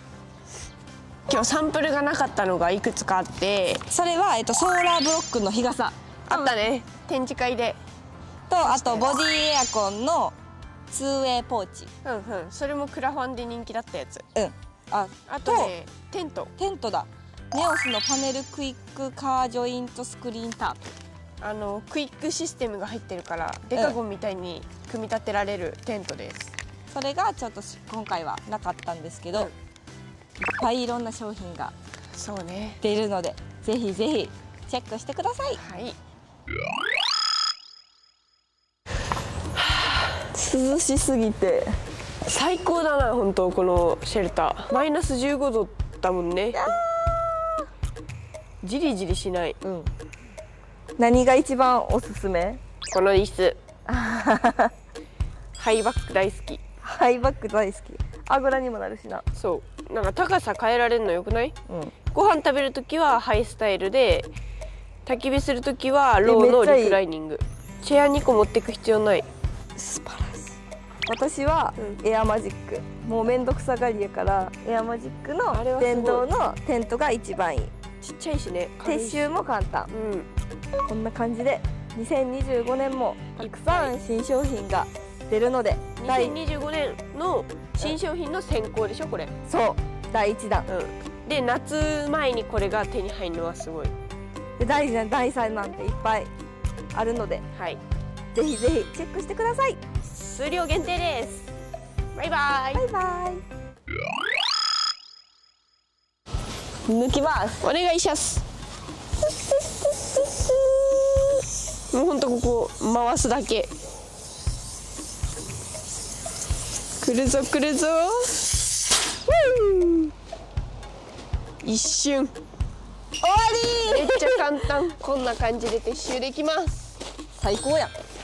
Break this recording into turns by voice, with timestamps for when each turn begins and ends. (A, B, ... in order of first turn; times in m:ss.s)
0:01.3-0:03.8 A
0:03.9-0:06.5 B
0:06.3-0:07.8 A
0:08.5-0:10.3 B
0:08.6-0:09.2 A
0:10.9-0:11.9 B
0:12.0-0:14.2 A
0:14.3-0:15.7 B
0:15.3-0:16.5 A
0:16.6-0:20.8 B
0:21.4-0:26.5 A
0:26.9-0:29.5 B
0:30.4-0:31.7 B
0:32.1-0:32.8 A
0:32.8-0:35.6 B
0:35.6-0:36.0 A
0:39.6-0:40.2 A
0:40.3-0:41.8 B
0:42.2-0:46.7 A
0:46.5-0:47.6 B
0:48.6-0:49.6 A
0:49.6-0:49.9 B
0:51.0-0:52.6 B
0:52.9-0:53.6 A
0:53.9-0:54.7 B
0:55.6-0:56.6 A
0:56.8-0:59.2 B
0:59.3-1:01.5 A
1:02.1-1:04.3 A
1:05.0-1:09.3 A
1:06.2-1:07.0 B
1:09.8-1:17.7 B
1:15.5-1:16.3 A
1:18.0-1:19.3 A
1:18.8-1:19.9 B
1:19.9-1:20.3 A
1:20.9-1:26.4 B
1:23.4-1:23.9 A
1:26.0-1:29.3 A
1:29.5-1:30.7 B
1:30.7-1:33.9 A
1:34.6-1:36.3 B
1:36.9-1:37.4 B
1:37.5-1:37.8 A
1:38.3-1:39.8 B
1:40.2-1:41.5 A
1:42.1-1:42.8 A
1:42.8-1:43.4 B
1:46.9-1:47.7 B
1:47.6-1:48.4 A
1:49.5-1:51.4 B
1:51.9-1:53.7 A
1:57.0-1:58.4 A
1:59.3-2:00.1 A
2:01.6-2:02.3 A
2:03.2-2:04.5 B
2:03.8-2:06.9 A
2:07.4-2:07.9 B